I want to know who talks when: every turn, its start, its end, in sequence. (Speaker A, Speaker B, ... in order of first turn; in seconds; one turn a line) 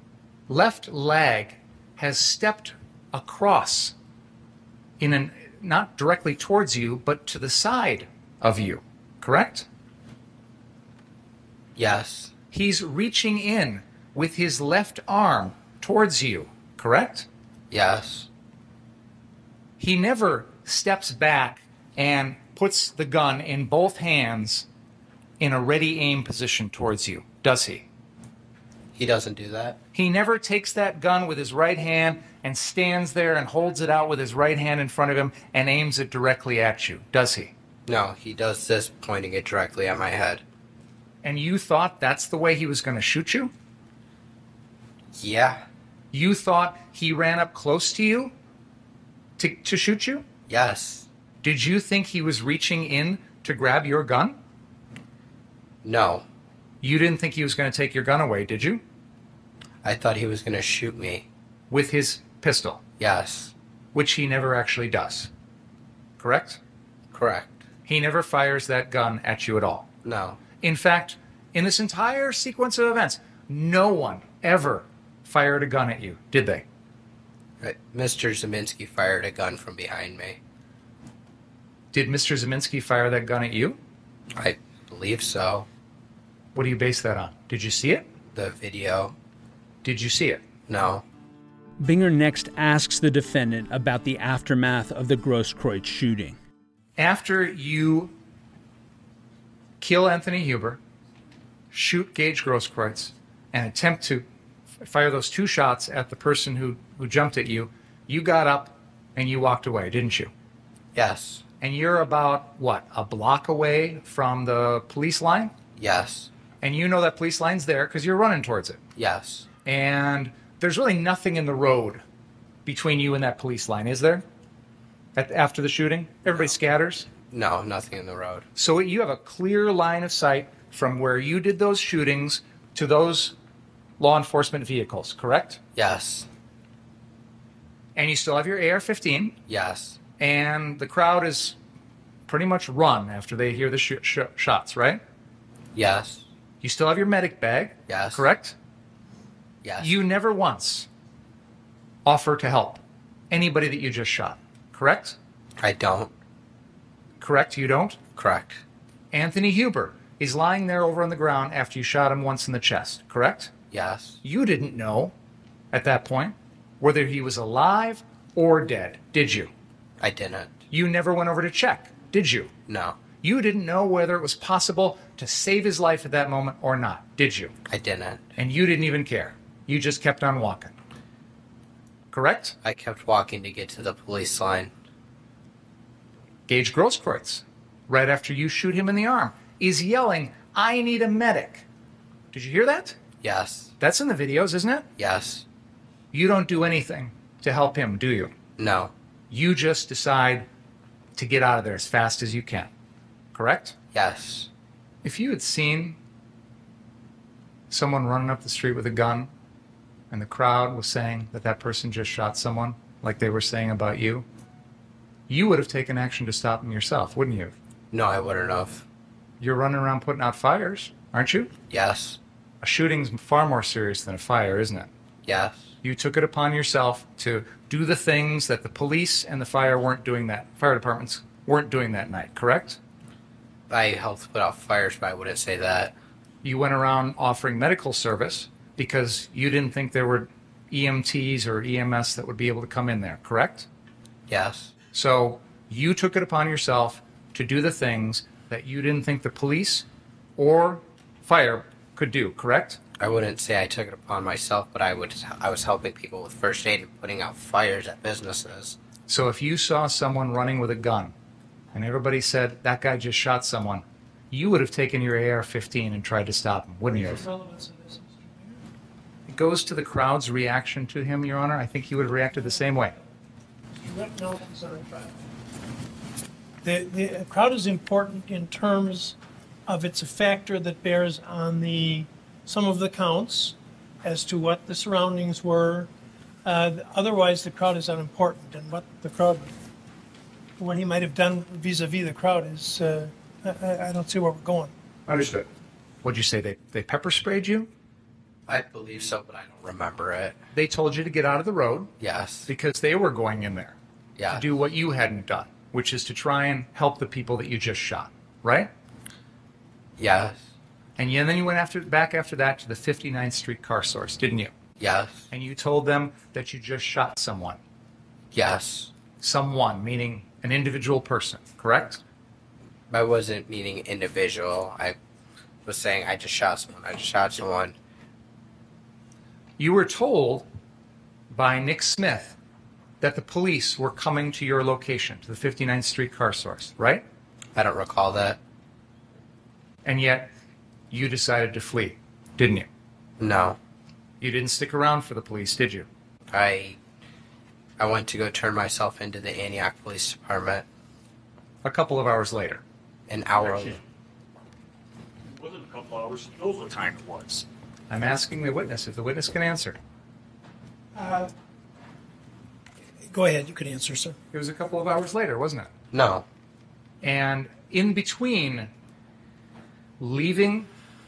Speaker A: 0.5-3.9
Speaker A: 5.0-9.7
Speaker B: 11.8-12.3
Speaker A: 12.5-17.3
Speaker B: 17.7-18.3
Speaker A: 19.8-24.6
Speaker A: 25.4-27.8
Speaker B: 28.9-29.8
Speaker A: 29.9-37.5
Speaker B: 37.9-40.4
Speaker A: 41.2-43.5
Speaker B: 45.1-45.6
Speaker A: 46.1-48.3
Speaker A: 49.4-50.2
Speaker B: 50.5-51.1
Speaker A: 51.4-54.4
Speaker B: 55.8-56.2
Speaker A: 56.8-58.8
Speaker B: 59.8-61.3
Speaker A: 61.7-62.8
Speaker B: 63.0-63.5
Speaker A: 63.9-65.3
Speaker A: 66.2-66.6
Speaker B: 67.1-67.6
Speaker A: 67.8-69.9
Speaker B: 70.0-70.4
Speaker A: 70.6-76.6
Speaker B: 77.6-80.4
Speaker A: 81.9-83.8
Speaker B: 84.3-85.7
Speaker A: 86.5-88.1
Speaker B: 88.3-89.1
Speaker A: 89.8-90.4
Speaker B: 90.7-91.0
Speaker C: 91.8-96.4
Speaker A: 97.0-98.1
Speaker A: 99.8-100.8
Speaker A: 101.7-104.2
Speaker A: 104.8-110.3
Speaker B: 110.9-111.4
Speaker A: 111.6-115.5
Speaker B: 115.8-116.3
Speaker A: 116.6-118.8
Speaker B: 119.0-119.5
Speaker A: 119.6-122.0
Speaker A: 122.6-124.2
Speaker A: 125.2-127.1
Speaker B: 127.2-128.5
Speaker A: 128.6-133.3
Speaker A: 134.0-135.6
Speaker B: 135.8-136.3
Speaker A: 137.9-139.4
Speaker B: 139.5-140.0
Speaker A: 140.2-141.6
Speaker A: 142.3-145.0
Speaker B: 145.7-146.3
Speaker A: 146.6-148.5
Speaker B: 147.9-148.3
Speaker B: 149.6-150.0
Speaker A: 149.8-150.9
Speaker A: 152.0-155.2
Speaker B: 155.6-156.1
Speaker A: 157.2-158.0
Speaker B: 158.1-158.6
Speaker A: 159.1-163.5
Speaker B: 163.7-164.2
Speaker A: 164.2-165.1
Speaker A: 165.7-169.5
Speaker B: 170.0-170.6
Speaker A: 170.7-172.5
Speaker B: 172.7-173.0
Speaker A: 173.1-177.5
Speaker B: 177.7-178.3
Speaker A: 178.4-180.7
Speaker A: 182.1-182.6
Speaker B: 182.6-184.7
Speaker A: 186.5-191.6
Speaker A: 192.3-193.0
Speaker B: 193.2-193.7
Speaker A: 193.8-194.9
Speaker B: 195.0-195.4
Speaker A: 196.1-198.3
Speaker B: 198.6-198.9
Speaker A: 199.3-200.5
Speaker A: 201.2-202.7
Speaker A: 203.3-203.8
Speaker B: 203.9-204.5
Speaker A: 205.0-206.0
Speaker A: 207.7-209.3
Speaker A: 210.1-214.2
Speaker A: 215.3-217.5
Speaker B: 217.9-218.8
Speaker A: 219.4-221.5
Speaker B: 221.7-222.2
Speaker A: 222.6-224.9
Speaker B: 225.2-225.7
Speaker A: 225.8-232.8
Speaker B: 233.7-235.9
Speaker A: 236.4-243.7
Speaker B: 244.3-244.7
Speaker A: 244.9-249.8
Speaker A: 250.4-252.8
Speaker B: 253.0-258.8
Speaker A: 259.1-261.1
Speaker A: 261.7-267.2
Speaker D: 266.9-268.6
Speaker A: 269.3-272.9
Speaker D: 273.8-275.1
Speaker D: 276.6-279.1
Speaker D: 279.7-285.9
Speaker D: 286.4-289.5
Speaker D: 290.6-294.7
Speaker A: 295.1-295.5
Speaker A: 296.0-297.7
Speaker B: 298.5-300.4
Speaker A: 300.5-301.9
Speaker B: 302.0-302.5
Speaker A: 302.5-303.8
Speaker B: 304.2-304.4
Speaker A: 304.3-308.7
Speaker B: 310.0-310.4
Speaker A: 311.0-314.5
Speaker B: 314.8-315.3
Speaker A: 315.3-317.6
Speaker B: 318.3-318.9
Speaker A: 319.2-322.0
Speaker B: 322.9-324.9
Speaker B: 325.6-327.7
Speaker A: 329.6-330.5
Speaker A: 331.3-332.4
Speaker A: 333.0-337.0
Speaker B: 337.5-338.4
Speaker A: 339.8-340.3
Speaker A: 340.9-342.7
Speaker B: 343.2-343.6
Speaker A: 344.2-345.9
Speaker B: 346.3-346.8
Speaker B: 347.8-350.6
Speaker A: 351.6-352.6
Speaker B: 353.1-353.8
Speaker E: 353.4-353.8
Speaker E: 355.3-357.4
Speaker A: 357.9-359.8
Speaker D: 360.9-361.3
Speaker D: 363.0-364.2
Speaker A: 364.3-365.7
Speaker B: 365.9-366.2
Speaker A: 367.0-368.7
Speaker A: 370.0-370.7